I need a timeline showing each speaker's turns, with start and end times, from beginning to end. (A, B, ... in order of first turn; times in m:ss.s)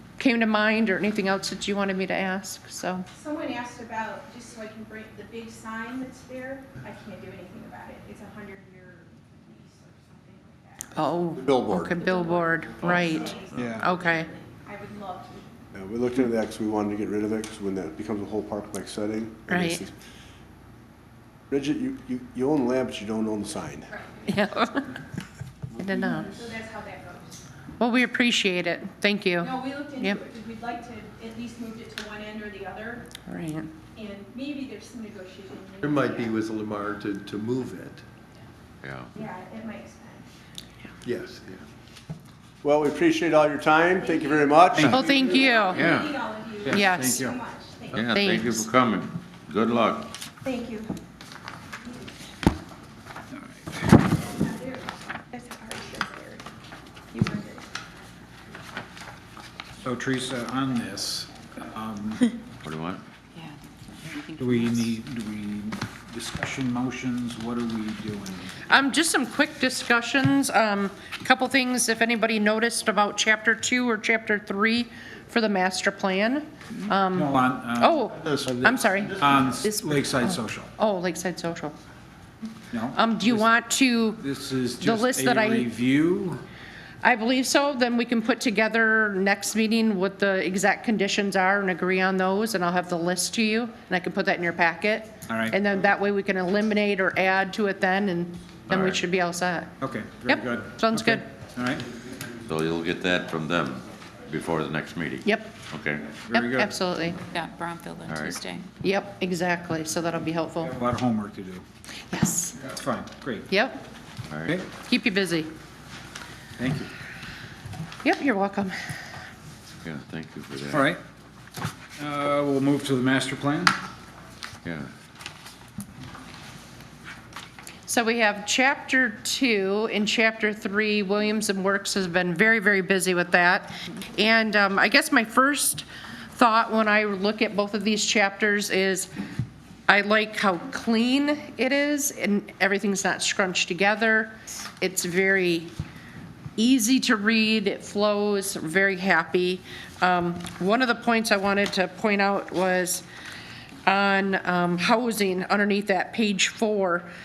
0:00.2-0:03.1 A
0:03.1-0:15.5 B
0:11.0-0:14.3 A
0:11.4-0:12.0 C
0:13.5-0:13.9 D
0:15.7-0:19.9 C
0:19.5-0:19.8 A
0:21.5-0:23.9 C
0:23.9-0:24.5 B
0:24.3-0:25.0 A
0:25.8-0:26.3 A
0:26.1-0:26.4 C
0:26.2-0:27.4 B
0:27.8-0:30.2 A
0:29.4-0:33.1 B
0:33.3-0:33.7 A
0:34.0-0:36.4 B
0:35.8-0:38.0 E
0:38.8-0:39.1 F
0:39.2-0:40.3 B
0:41.0-0:41.6 E
0:42.6-0:45.5 C
0:44.0-0:48.1 B
0:44.8-0:45.0 D
0:44.8-0:45.9 A
0:45.7-0:46.2 F
0:46.6-0:47.4 D
0:46.7-0:47.2 A
0:47.9-0:50.1 F
0:48.1-0:48.7 A
0:50.4-0:50.9 B
0:53.4-0:53.9 D
0:54.3-0:56.5 B
0:57.1-0:57.6 B
0:59.8-1:02.3 D
1:02.6-1:03.0 F
1:03.4-1:04.8 G
1:04.4-1:08.6 D
1:08.7-1:19.4 A
1:17.1-1:20.7 D
1:20.2-1:21.8 A
1:22.7-1:23.5 D
1:23.0-1:24.2 A
1:24.2-1:26.4 D
1:24.8-1:25.7 A
1:27.0-1:39.7 A
1:35.3-1:35.6 D
1:39.8-1:41.8 D
1:40.3-1:41.2 A
1:42.5-1:46.2 F
1:45.2-1:45.6 A
1:46.2-1:46.8 D
1:46.3-1:47.2 A
1:47.3-1:48.7 G
1:48.1-1:48.4 F
1:48.8-1:50.7 A
1:50.6-1:51.6 D
1:52.1-1:52.6 A
1:52.7-1:53.5 D
1:53.5-1:53.8 A
1:54.3-1:54.6 F
1:54.8-1:55.5 A
1:56.6-1:56.9 D
1:58.0-1:58.8 A
1:59.8-2:00.8 F
2:00.7-2:01.0 D
2:02.0-2:03.8 D
2:04.6-2:04.9 F
2:07.9-2:19.1 A
2:19.9-2:25.7 A
2:26.6-2:33.0 A
2:33.9-2:37.1 A